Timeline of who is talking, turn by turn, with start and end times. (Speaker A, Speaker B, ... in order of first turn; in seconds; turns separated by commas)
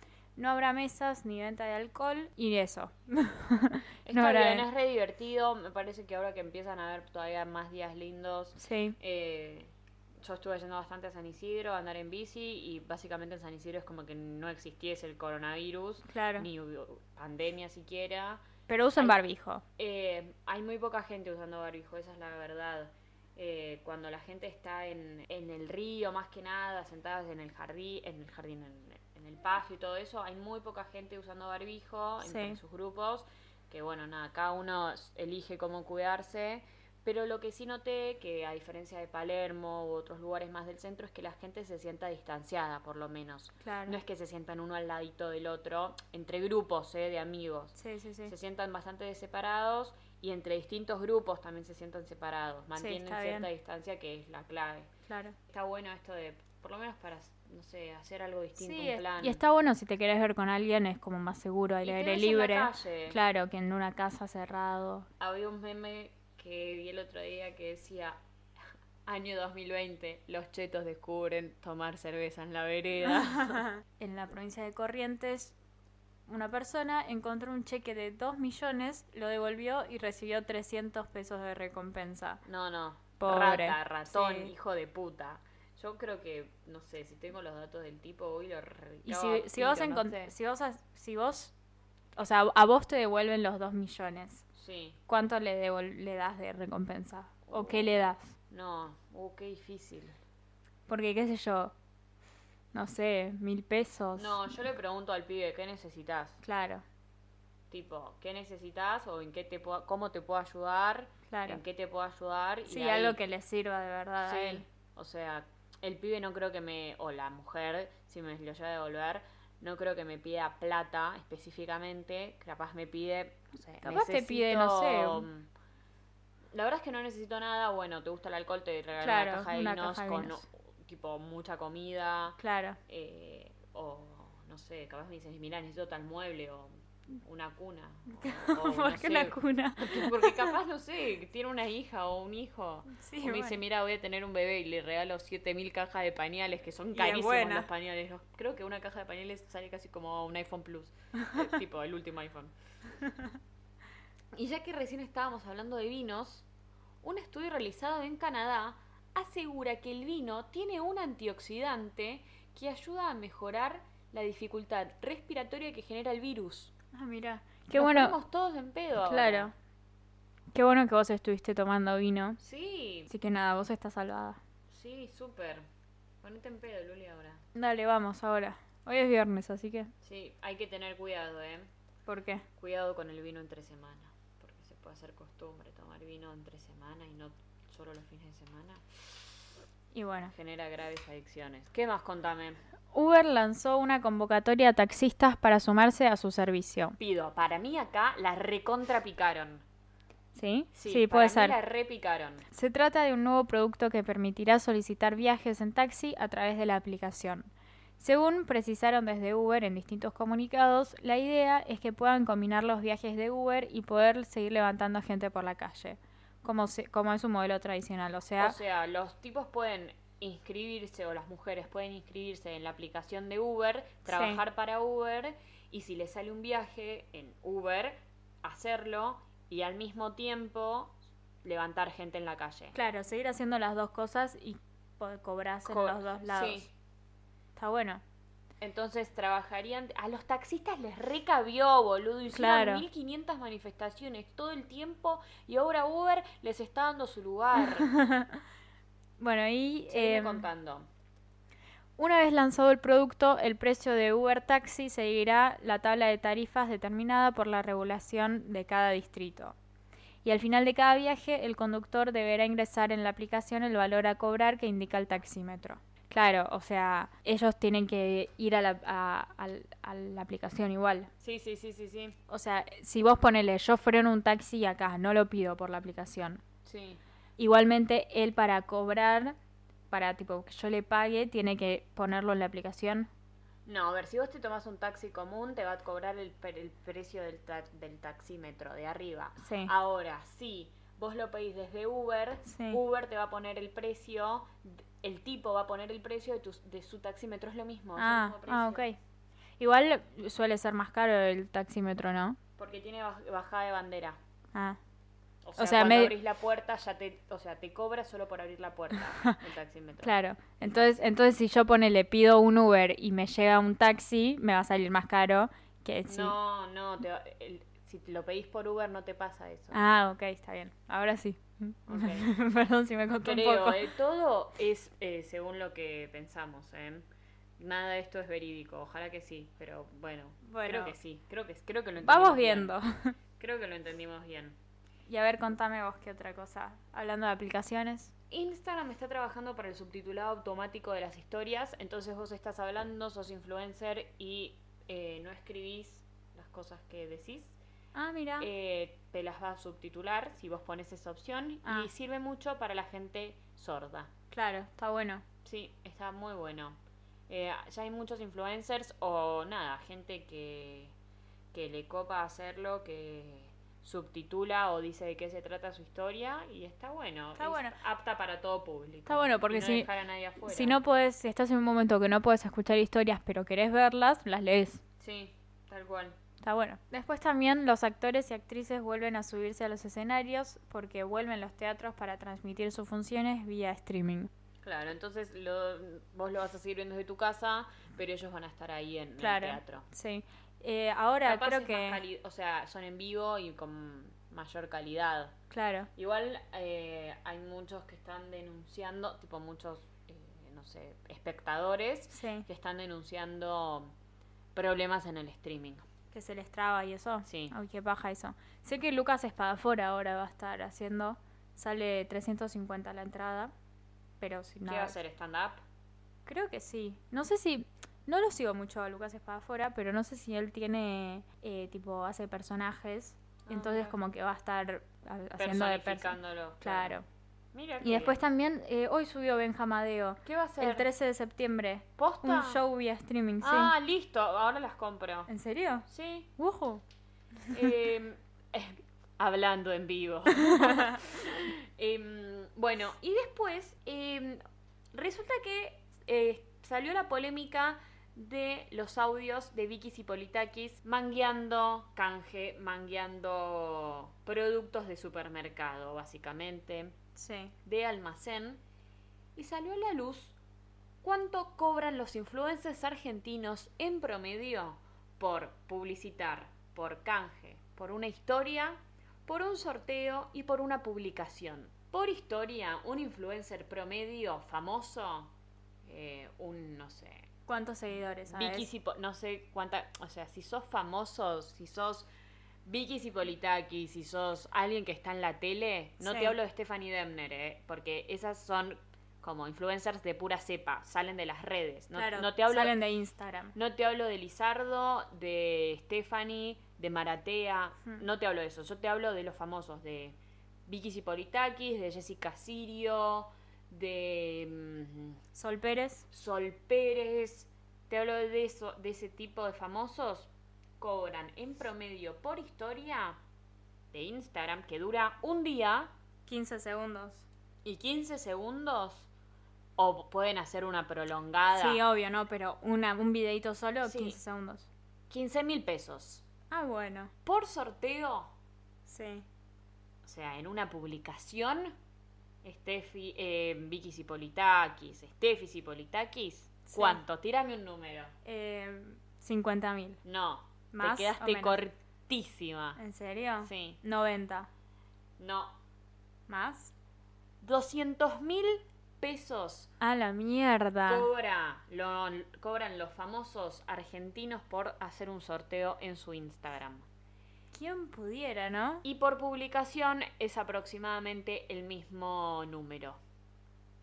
Speaker A: 0.4-4.7, Speaker B: 4.1-18.4, Speaker A: 8.6-9.0, Speaker A: 16.1-16.5, Speaker A: 18.7-19.6, Speaker B: 19.8-47.8, Speaker A: 32.2-32.6, Speaker A: 43.6-44.0, Speaker A: 47.8-48.3, Speaker B: 48.3-54.9, Speaker A: 52.8-53.5, Speaker A: 55.1-55.4, Speaker B: 55.5-59.4, Speaker A: 58.6-65.1, Speaker B: 61.8-63.2, Speaker B: 65.2-68.2, Speaker B: 69.1-73.6, Speaker A: 73.5-75.5, Speaker A: 76.3-82.4, Speaker B: 82.5-90.3, Speaker A: 83.2-84.5, Speaker A: 89.1-91.5, Speaker A: 92.2-94.5, Speaker B: 94.5-95.0, Speaker A: 95.1-98.4, Speaker B: 97.5-97.9, Speaker B: 98.5-100.2, Speaker A: 100.9-101.7, Speaker A: 102.7-104.4, Speaker B: 104.2-106.4, Speaker A: 106.4-106.8, Speaker B: 107.7-113.2, Speaker A: 111.3-111.6, Speaker A: 112.7-114.7, Speaker B: 114.2-125.5, Speaker A: 123.8-125.3, Speaker B: 126.5-152.5, Speaker A: 129.0-130.4, Speaker A: 132.4-132.8, Speaker A: 138.2-140.6, Speaker A: 142.9-143.6, Speaker A: 146.9-147.7, Speaker B: 154.3-156.5, Speaker B: 157.0-166.7, Speaker A: 166.9-168.1, Speaker B: 167.8-169.5, Speaker A: 169.0-169.5, Speaker A: 170.5-172.4, Speaker B: 172.4-173.1, Speaker A: 173.1-174.4, Speaker B: 174.7-175.7, Speaker B: 176.2-177.4, Speaker A: 177.6-179.9, Speaker B: 180.0-181.7, Speaker A: 182.1-182.5, Speaker B: 182.6-189.0, Speaker A: 189.9-190.3, Speaker B: 190.3-192.6, Speaker A: 192.9-197.0, Speaker B: 197.0-199.6, Speaker A: 200.3-201.6, Speaker B: 200.8-202.4, Speaker A: 202.5-218.6, Speaker B: 218.4-232.8, Speaker A: 224.1-224.4, Speaker A: 232.7-236.7, Speaker B: 235.7-236.7, Speaker A: 237.6-238.0, Speaker B: 238.6-247.9, Speaker A: 242.3-242.8, Speaker A: 247.8-248.4, Speaker A: 249.2-250.4, Speaker B: 249.9-250.9, Speaker A: 252.0-259.6, Speaker A: 260.2-271.1, Speaker B: 271.2-272.2, Speaker A: 272.3-276.4, Speaker B: 276.6-277.0, Speaker A: 277.4-279.4, Speaker A: 279.9-283.1, Speaker B: 283.7-298.9, Speaker A: 289.4-289.7, Speaker A: 292.5-292.8, Speaker A: 298.0-299.0, Speaker A: 299.6-302.4, Speaker B: 302.6-304.2, Speaker B: 305.4-310.1, Speaker A: 305.6-306.1, Speaker A: 310.0-316.3, Speaker B: 310.7-311.0, Speaker B: 316.1-319.8, Speaker A: 319.7-323.9, Speaker B: 321.9-322.3, Speaker B: 323.2-327.1, Speaker B: 327.6-332.7, Speaker A: 330.4-330.9, Speaker A: 332.0-333.2, Speaker B: 333.4-334.6, Speaker A: 335.1-338.1, Speaker B: 338.3-347.6, Speaker A: 347.9-348.5, Speaker B: 348.4-354.1, Speaker A: 351.6-351.9, Speaker A: 354.3-355.2, Speaker B: 355.4-356.8, Speaker B: 357.3-360.9, Speaker B: 361.5-370.8, Speaker A: 367.4-367.8, Speaker A: 369.1-369.9, Speaker A: 370.4-374.8, Speaker B: 375.0-376.1, Speaker A: 376.4-384.3, Speaker B: 384.6-389.9, Speaker A: 389.2-392.0, Speaker B: 391.2-395.4, Speaker A: 395.5-395.9, Speaker B: 396.0-403.9, Speaker A: 402.1-402.5, Speaker B: 404.5-405.8, Speaker A: 406.1-413.5, Speaker B: 407.2-407.6, Speaker A: 414.2-415.0, Speaker B: 414.7-415.6, Speaker A: 416.3-427.0, Speaker B: 423.5-423.9, Speaker B: 425.4-426.9, Speaker B: 427.5-428.2, Speaker A: 427.8-433.7, Speaker B: 430.2-430.9, Speaker B: 432.0-432.6, Speaker B: 433.4-435.3, Speaker A: 435.3-436.8, Speaker B: 435.9-436.3, Speaker B: 437.5-444.4, Speaker A: 440.4-440.9, Speaker B: 444.9-456.9, Speaker A: 457.2-457.5, Speaker B: 457.6-458.6, Speaker B: 459.4-460.4, Speaker B: 461.0-475.3, Speaker B: 475.9-477.3, Speaker A: 477.5-478.7, Speaker B: 478.3-482.1, Speaker B: 482.6-492.7, Speaker A: 486.0-486.3, Speaker A: 491.9-493.6, Speaker B: 493.6-505.2, Speaker A: 505.4-506.1, Speaker B: 506.1-513.2, Speaker B: 513.9-515.9, Speaker A: 516.3-517.3, Speaker B: 517.6-519.1, Speaker B: 519.8-521.8, Speaker A: 521.5-524.7, Speaker B: 523.9-524.2, Speaker B: 525.1-526.2, Speaker A: 526.5-527.1, Speaker B: 527.2-528.3, Speaker A: 528.9-529.3, Speaker B: 530.0-531.7, Speaker B: 532.4-538.1, Speaker A: 536.7-537.0, Speaker A: 538.2-540.0, Speaker B: 540.0-542.8, Speaker A: 540.7-541.6, Speaker A: 542.8-544.5, Speaker B: 543.4-543.8, Speaker B: 545.2-545.5, Speaker A: 546.3-546.7, Speaker B: 547.4-549.7, Speaker A: 549.8-551.1, Speaker B: 550.9-556.9, Speaker A: 557.5-558.8, Speaker B: 558.8-563.0